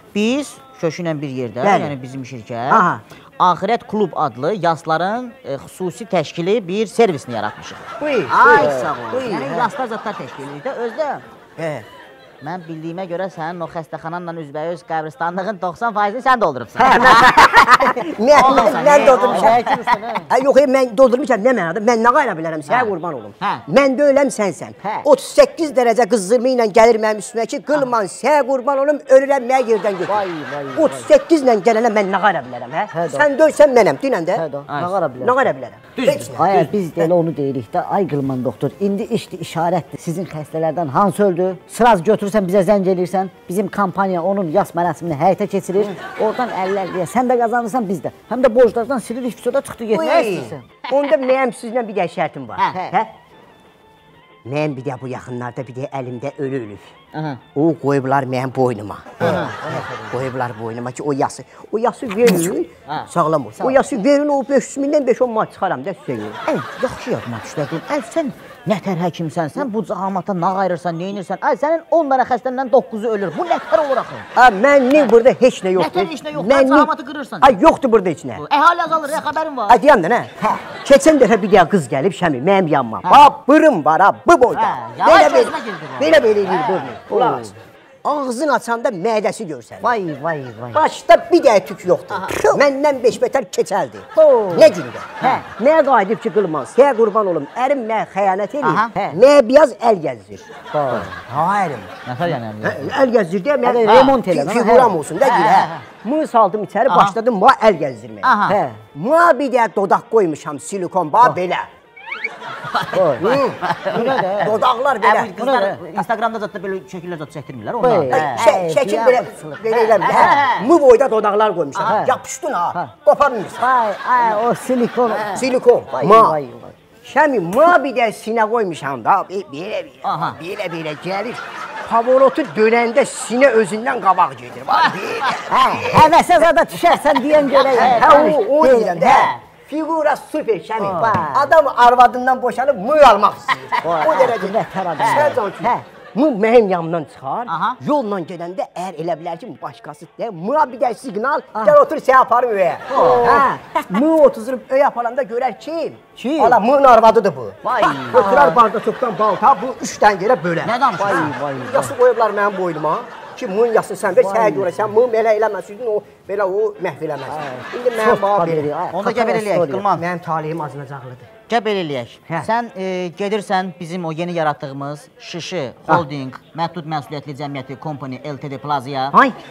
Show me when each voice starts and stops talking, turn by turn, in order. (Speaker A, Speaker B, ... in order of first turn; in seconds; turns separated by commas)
Speaker A: 0.1-2.9, Speaker B: 1.6-1.9, Speaker B: 2.7-3.0, Speaker A: 3.4-11.2, Speaker B: 8.0-9.7, Speaker B: 11.6-11.8, Speaker A: 12.4-20.2, Speaker B: 16.8-19.6, Speaker C: 18.4-20.3, Speaker B: 20.3-30.2, Speaker A: 22.7-23.6, Speaker C: 30.1-31.1, Speaker B: 30.7-34.4, Speaker C: 32.9-33.3, Speaker C: 34.3-35.3, Speaker A: 34.7-35.0, Speaker B: 35.2-37.1, Speaker A: 36.0-36.6, Speaker C: 36.3-50.5, Speaker B: 49.9-53.1, Speaker A: 50.1-50.8, Speaker A: 52.6-53.0, Speaker B: 54.4-56.9, Speaker A: 57.1-57.4, Speaker B: 57.5-66.4, Speaker A: 59.2-60.2, Speaker A: 66.5-74.3, Speaker B: 74.3-76.9, Speaker A: 75.7-77.5, Speaker B: 77.4-78.4, Speaker A: 78.3-79.8, Speaker B: 79.7-89.9, Speaker A: 84.5-87.3, Speaker C: 87.1-87.5, Speaker C: 89.8-90.8, Speaker B: 90.7-101.9, Speaker A: 92.1-92.6, Speaker C: 94.2-94.7, Speaker A: 95.2-95.5, Speaker A: 98.6-98.9, Speaker C: 100.7-101.1, Speaker A: 102.0-103.0, Speaker B: 102.6-108.3, Speaker C: 103.6-104.9, Speaker A: 103.8-104.2, Speaker A: 105.2-105.8, Speaker A: 106.9-107.2, Speaker A: 108.2-108.6, Speaker C: 108.5-108.8, Speaker B: 108.9-111.7, Speaker A: 112.7-118.5, Speaker C: 112.9-114.6, Speaker B: 113.2-115.3, Speaker C: 115.4-115.8, Speaker C: 117.8-120.4, Speaker B: 118.1-123.7, Speaker A: 119.7-120.7, Speaker A: 121.7-122.0, Speaker C: 121.8-122.2, Speaker C: 123.6-125.4, Speaker A: 125.1-125.5, Speaker B: 125.3-126.4, Speaker C: 126.0-126.7, Speaker B: 127.0-136.1, Speaker A: 130.0-130.4, Speaker A: 134.7-135.8, Speaker C: 135.5-139.3, Speaker A: 137.5-138.4, Speaker B: 137.7-168.7, Speaker A: 139.0-139.4, Speaker A: 140.8-141.2, Speaker C: 140.9-141.5, Speaker C: 143.8-145.8, Speaker A: 143.9-144.2, Speaker A: 145.0-145.3, Speaker A: 147.5-147.8, Speaker A: 152.9-153.4, Speaker C: 153.0-153.6, Speaker C: 156.2-156.6, Speaker A: 157.6-158.6, Speaker A: 160.6-161.4, Speaker C: 161.0-161.9, Speaker C: 164.2-164.8, Speaker C: 167.3-169.8, Speaker A: 168.9-170.0, Speaker B: 170.0-171.3, Speaker A: 171.5-179.2